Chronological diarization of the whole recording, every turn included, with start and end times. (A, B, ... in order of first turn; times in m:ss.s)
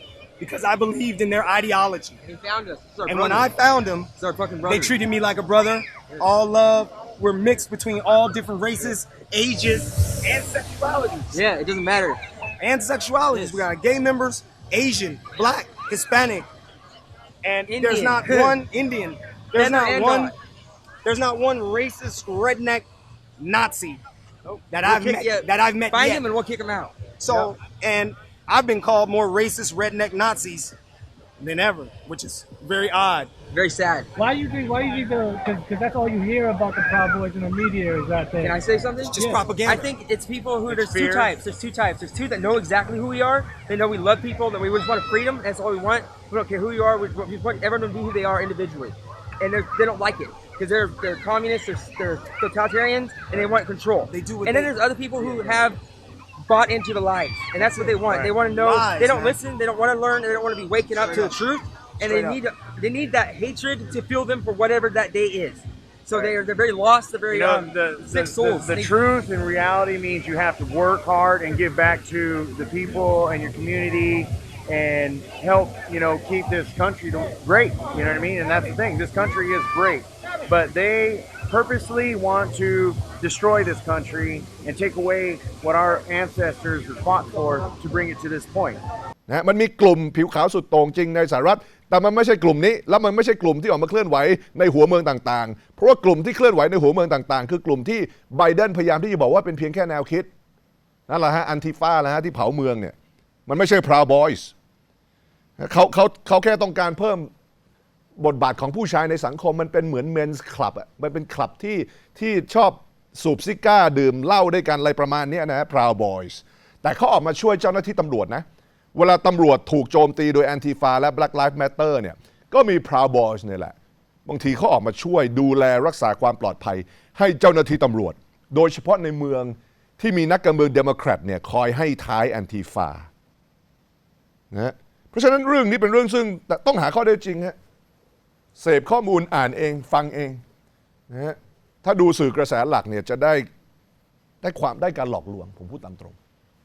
0:00.4-0:02.2 A
0:02.2-0:03.5 B
0:03.0-0:04.1 A
0:04.2-0:05.0 B
0:04.6-0:11.4 A
0:11.3-0:12.2 B
0:12.6-0:16.5 A
0:13.3-0:13.7 B
0:17.4-0:20.3 A
0:17.7-0:18.6 B
0:19.6-0:20.3 B
0:21.0-0:22.8 A
0:23.4-0:24.0 A
0:24.5-0:27.5 B
0:24.7-0:26.2 A
0:27.2-0:30.7 A
0:31.4-0:33.3 A
0:33.5-0:34.1 B
0:34.2-0:38.6 C
0:38.4-0:55.8 B
0:39.0-0:39.9 A
0:39.2-0:39.4 C
0:40.7-0:41.4 A
0:54.1-0:55.7 A
0:56.4-1:08.9 B
0:57.6-0:59.4 A
1:00.9-1:02.4 A
1:07.5-1:28.8 D
1:29.3-1:40.3 E
1:41.1-1:42.9 E
1:43.5-1:44.5 E
1:45.6-1:47.3 E
1:48.2-2:03.7 E
2:04.2-2:13.1 E
2:14.5-2:17.5 E
2:18.6-2:20.4 E
2:21.1-2:23.5 E
2:24.4-2:26.1 E